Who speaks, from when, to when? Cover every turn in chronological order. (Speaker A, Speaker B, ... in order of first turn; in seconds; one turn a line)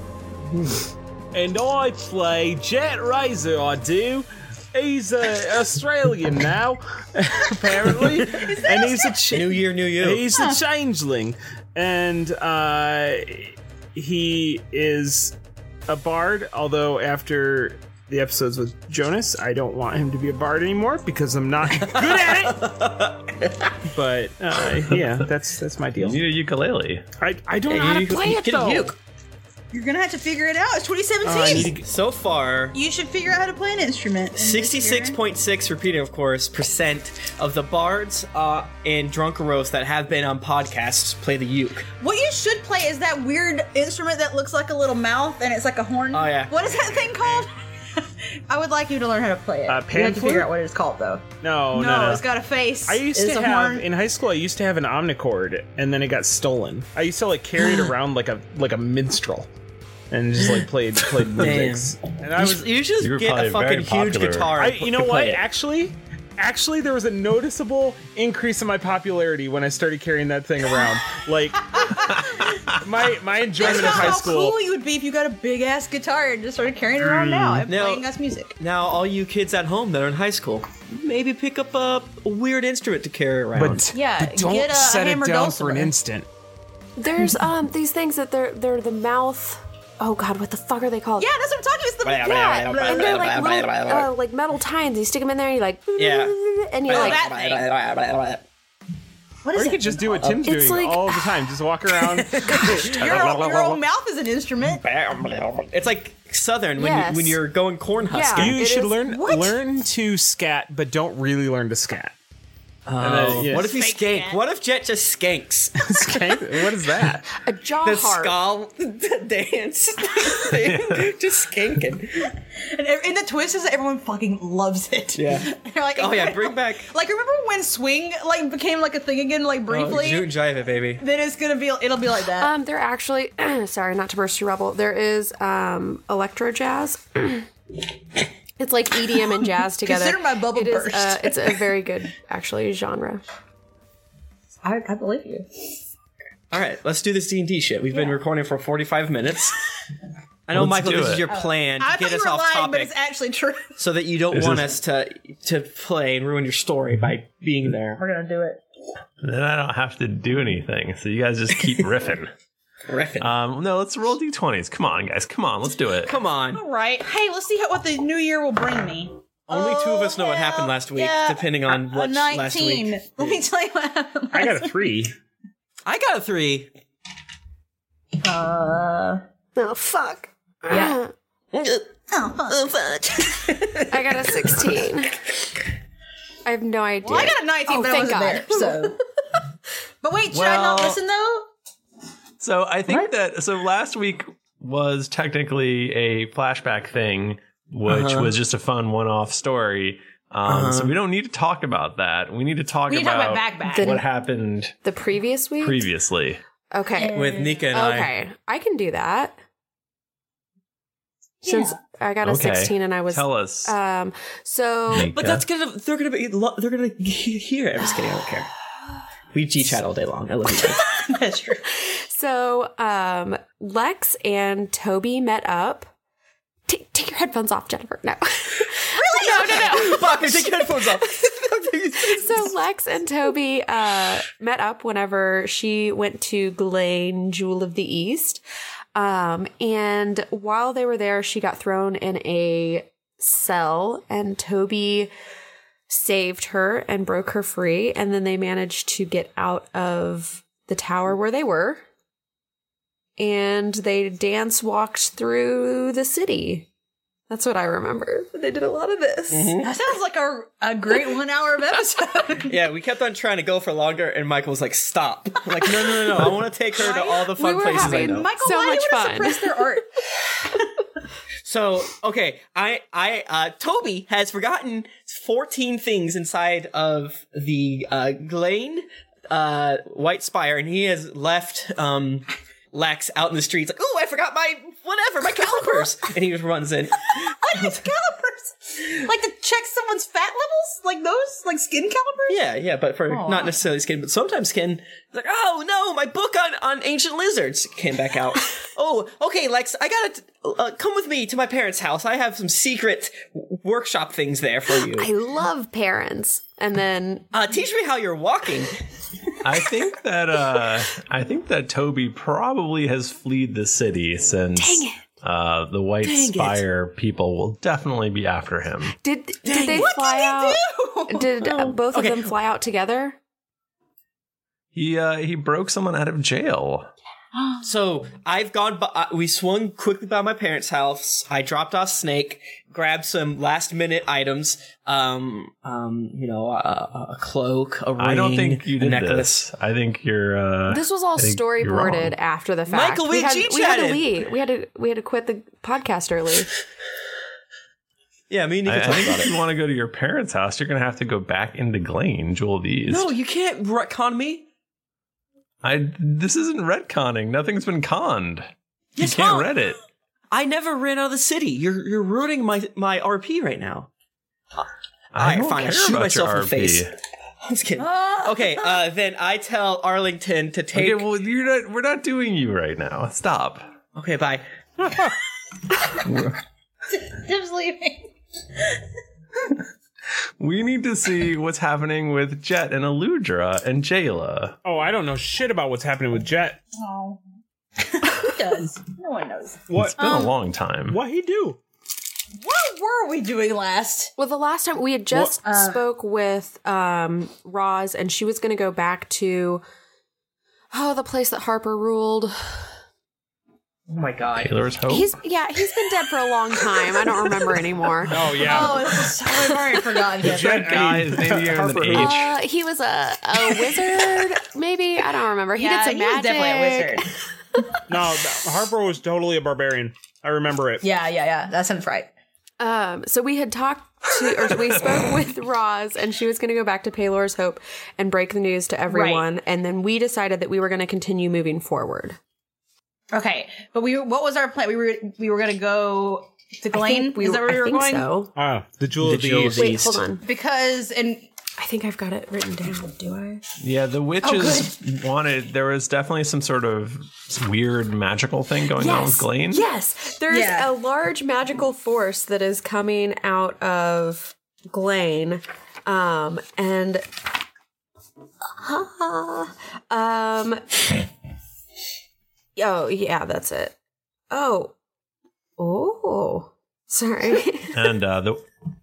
Speaker A: 1.3-15.3
Speaker B: 8.3-9.3
Speaker C: 9.3-10.2
Speaker B: 10.3-10.6
Speaker A: 15.9-22.6
Speaker C: 21.8-23.7
Speaker A: 23.9-26.2
Speaker D: 26.0-27.0
Speaker A: 27.2-28.9
Speaker C: 27.6-28.9
Speaker B: 29.7-31.7
Speaker A: 31.2-31.9
Speaker C: 31.5-32.8
Speaker B: 32.7-35.2
Speaker C: 34.4-41.9
Speaker B: 42.0-53.8
Speaker C: 46.1-47.1
Speaker A: 49.7-50.5
Speaker A: 51.4-52.3
Speaker A: 52.9-59.5
Speaker A: 60.1-62.7
Speaker C: 61.4-65.4
Speaker D: 63.0-64.5
Speaker A: 64.5-72.1
Speaker D: 72.1-72.8
Speaker A: 72.8-74.6
Speaker B: 73.5-78.5
Speaker A: 77.0-77.7
Speaker C: 77.7-78.0
Speaker C: 78.6-83.9
Speaker A: 83.5-86.3
Speaker B: 83.9-85.9
Speaker E: 87.0-91.3
Speaker B: 91.2-93.5
Speaker C: 92.0-94.1
Speaker E: 92.7-97.2
Speaker C: 96.0-96.3
Speaker C: 96.9-98.4
Speaker B: 96.9-97.7
Speaker B: 99.4-100.4
Speaker A: 99.5-103.8
Speaker E: 100.4-101.0
Speaker B: 102.4-104.8
Speaker C: 102.5-103.4
Speaker C: 104.7-108.6
Speaker E: 106.8-107.4
Speaker E: 108.1-109.0
Speaker A: 108.3-112.1
Speaker B: 109.0-109.6
Speaker C: 112.8-116.5
Speaker A: 113.0-113.7
Speaker B: 113.5-114.4
Speaker A: 115.8-117.3
Speaker E: 117.4-118.3
Speaker C: 117.8-122.3
Speaker D: 120.6-121.1
Speaker B: 122.6-130.3
Speaker C: 125.1-126.8
Speaker C: 129.7-131.0
Speaker B: 131.0-132.5
Speaker E: 132.4-137.4
Speaker E: 138.6-143.2
Speaker B: 139.8-141.6
Speaker B: 144.6-145.7
Speaker C: 146.5-149.6
Speaker C: 150.5-152.9
Speaker D: 150.5-151.3
Speaker B: 151.3-153.7
Speaker C: 153.8-158.0
Speaker D: 154.3-154.7
Speaker B: 158.0-158.6
Speaker D: 159.2-162.3
Speaker C: 162.9-163.3
Speaker D: 163.2-166.1
Speaker C: 166.1-166.6
Speaker B: 166.5-175.0
Speaker C: 169.5-173.0
Speaker A: 174.3-175.1
Speaker C: 175.8-176.7
Speaker B: 178.2-179.2
Speaker E: 179.6-181.1
Speaker C: 181.5-181.8
Speaker B: 182.1-182.6
Speaker C: 182.5-184.3
Speaker E: 183.9-185.2
Speaker E: 186.4-188.9
Speaker B: 187.0-189.0
Speaker B: 190.0-191.5
Speaker D: 190.3-191.0
Speaker D: 192.4-204.8
Speaker C: 197.8-198.3
Speaker C: 200.5-200.9
Speaker B: 202.9-204.0
Speaker E: 203.8-204.1
Speaker E: 204.8-205.8
Speaker D: 205.6-206.4
Speaker E: 206.7-209.4
Speaker B: 206.9-207.7
Speaker C: 207.1-208.1
Speaker B: 211.4-211.8
Speaker E: 211.4-215.1
Speaker D: 212.2-213.7
Speaker D: 214.9-215.4
Speaker C: 215.1-218.5
Speaker C: 219.3-220.9
Speaker B: 220.7-221.6
Speaker E: 221.9-225.9
Speaker E: 226.7-230.4
Speaker B: 228.9-230.0
Speaker C: 229.2-232.5
Speaker E: 232.0-238.4
Speaker E: 238.9-245.1
Speaker E: 245.9-251.8
Speaker E: 253.2-256.7
Speaker E: 257.3-259.5
Speaker C: 259.3-259.7
Speaker B: 259.6-262.5
Speaker C: 262.5-268.3
Speaker B: 265.6-270.4
Speaker E: 267.6-269.7
Speaker C: 271.4-287.9
Speaker B: 285.5-285.9
Speaker B: 287.2-292.4
Speaker C: 292.3-305.1
Speaker B: 293.1-293.6
Speaker E: 304.9-307.2
Speaker C: 307.3-308.7
Speaker D: 309.4-318.9
Speaker E: 314.6-315.0
Speaker C: 316.0-316.6
Speaker E: 319.0-323.2
Speaker C: 319.5-319.9
Speaker B: 319.6-321.6
Speaker C: 321.9-322.3
Speaker D: 324.7-326.9
Speaker B: 327.3-327.6
Speaker C: 327.6-339.4
Speaker D: 338.0-342.1
Speaker E: 340.7-346.5
Speaker C: 342.7-344.1
Speaker C: 348.3-349.4
Speaker D: 348.6-353.1
Speaker C: 352.9-354.4
Speaker D: 355.6-359.8
Speaker B: 359.0-359.5
Speaker C: 360.3-363.9
Speaker C: 364.6-366.9
Speaker D: 365.1-366.9
Speaker C: 367.4-371.0
Speaker B: 367.8-368.7
Speaker D: 370.7-373.7
Speaker C: 373.9-374.4
Speaker D: 376.0-376.4
Speaker B: 376.9-378.1
Speaker D: 380.4-384.6
Speaker A: 384.6-386.6
Speaker B: 386.8-387.2
Speaker B: 387.8-389.6
Speaker A: 389.7-390.1
Speaker D: 389.8-391.0
Speaker A: 390.9-391.6
Speaker B: 392.4-394.1
Speaker E: 394.2-399.6
Speaker B: 395.4-395.8
Speaker E: 400.7-402.7
Speaker C: 403.9-404.5
Speaker D: 404.4-405.1
Speaker E: 404.9-408.7
Speaker A: 408.1-409.0
Speaker B: 408.4-411.0
Speaker A: 410.2-412.2
Speaker D: 410.4-412.3
Speaker E: 411.9-417.0
Speaker B: 415.6-417.1
Speaker A: 417.9-420.8
Speaker B: 420.8-422.1
Speaker E: 422.6-432.2
Speaker B: 428.9-429.3
Speaker B: 433.1-438.1
Speaker E: 436.7-438.3
Speaker A: 438.3-439.8
Speaker C: 439.0-440.0
Speaker E: 439.6-440.2
Speaker B: 440.2-441.3
Speaker E: 441.6-443.4
Speaker D: 443.6-449.6
Speaker B: 444.2-444.8
Speaker E: 448.8-457.0
Speaker B: 450.3-450.7
Speaker E: 458.6-460.6
Speaker E: 462.6-463.7
Speaker E: 464.3-464.7
Speaker E: 465.6-467.7
Speaker D: 467.7-468.4